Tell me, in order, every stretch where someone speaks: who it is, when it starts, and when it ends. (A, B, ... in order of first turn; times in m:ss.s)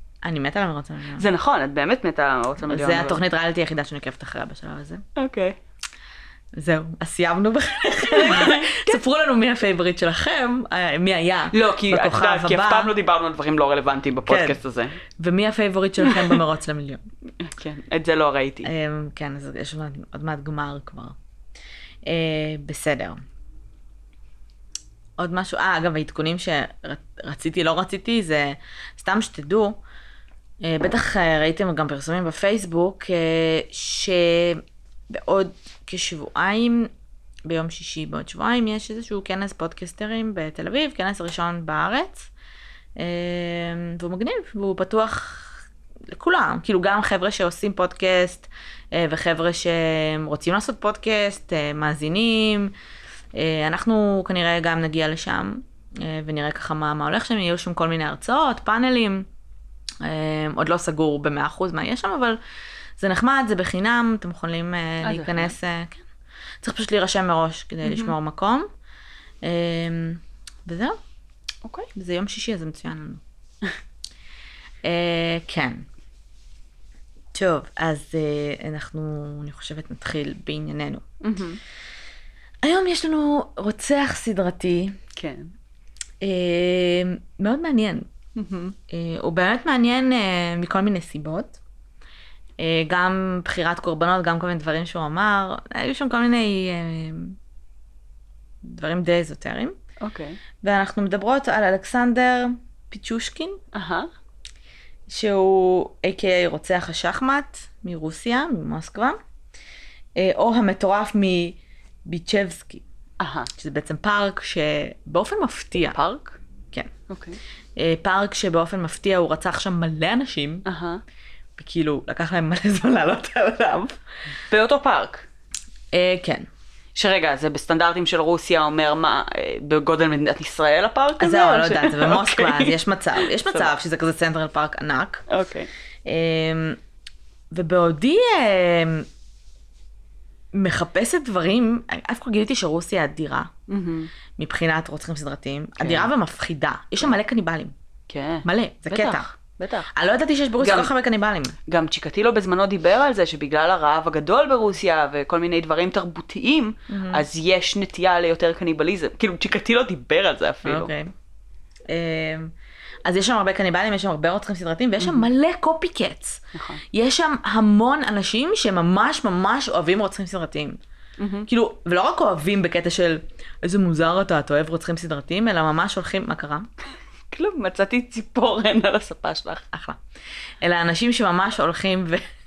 0:00.2-0:01.2 A
0:01.2-0:03.2 B
0:02.6-0:05.0 A
0:05.2-0:05.6 B
0:06.5-0:12.9 A
0:08.1-0:09.0 B
0:11.5-0:15.0 B
0:14.3-0:14.6 A
0:15.2-0:17.0 A
0:16.0-0:16.4 B
0:17.4-0:18.7 B
0:18.6-0:21.2 A
0:22.0-0:23.2 A
0:25.2-0:29.8 A
0:30.6-0:36.9 A
0:37.5-0:42.3 A
0:43.0-0:45.6 A
0:46.1-0:52.7 A
0:53.3-0:59.2 A
1:00.0-1:02.4 A
1:03.0-1:06.0 A
1:05.0-1:05.5 B
1:06.6-1:08.7 A
1:07.8-1:08.1 B
1:09.4-1:11.0 A
1:11.6-1:11.9 B
1:11.9-1:13.2 A
1:14.8-1:15.8 A
1:17.3-1:21.0 A
1:21.2-1:21.6 B
1:22.6-1:25.0 A
1:25.2-1:25.5 B
1:26.2-1:28.1 A
1:28.4-1:28.8 B
1:28.9-1:31.6 A
1:32.6-1:37.4 A
1:38.6-1:39.8 A
1:40.0-1:40.4 B
1:40.6-1:43.6 A
1:43.7-1:44.1 B
1:45.1-1:49.2 A
1:50.2-1:52.8 A
1:53.2-1:53.5 B
1:53.5-1:56.0 A
1:55.9-1:56.4 B
1:57.1-1:57.4 B
1:57.8-2:00.6 A
2:00.6-2:01.0 B
2:01.6-2:04.0 A
2:04.5-2:05.3 B
2:05.9-2:06.5 A
2:06.9-2:13.7 B
2:11.2-2:15.2 A
2:15.3-2:15.7 B
2:16.0-2:16.8 A
2:17.5-2:19.1 A
2:20.5-2:23.5 A
2:23.7-2:24.1 B
2:24.4-2:27.7 A
2:25.8-2:26.1 B
2:28.1-2:29.9 B
2:28.4-2:29.3 A
2:29.9-2:31.5 A
2:30.6-2:30.9 B
2:31.7-2:40.9 B
2:36.9-2:37.2 A
2:40.6-2:41.1 A
2:41.9-2:42.5 A
2:43.0-2:50.8 A
2:45.0-2:45.3 B
2:46.5-2:46.8 B
2:51.2-2:51.5 B
2:51.5-2:56.7 A
2:57.3-2:59.7 B
2:59.7-3:00.0 A
3:00.6-3:02.3 A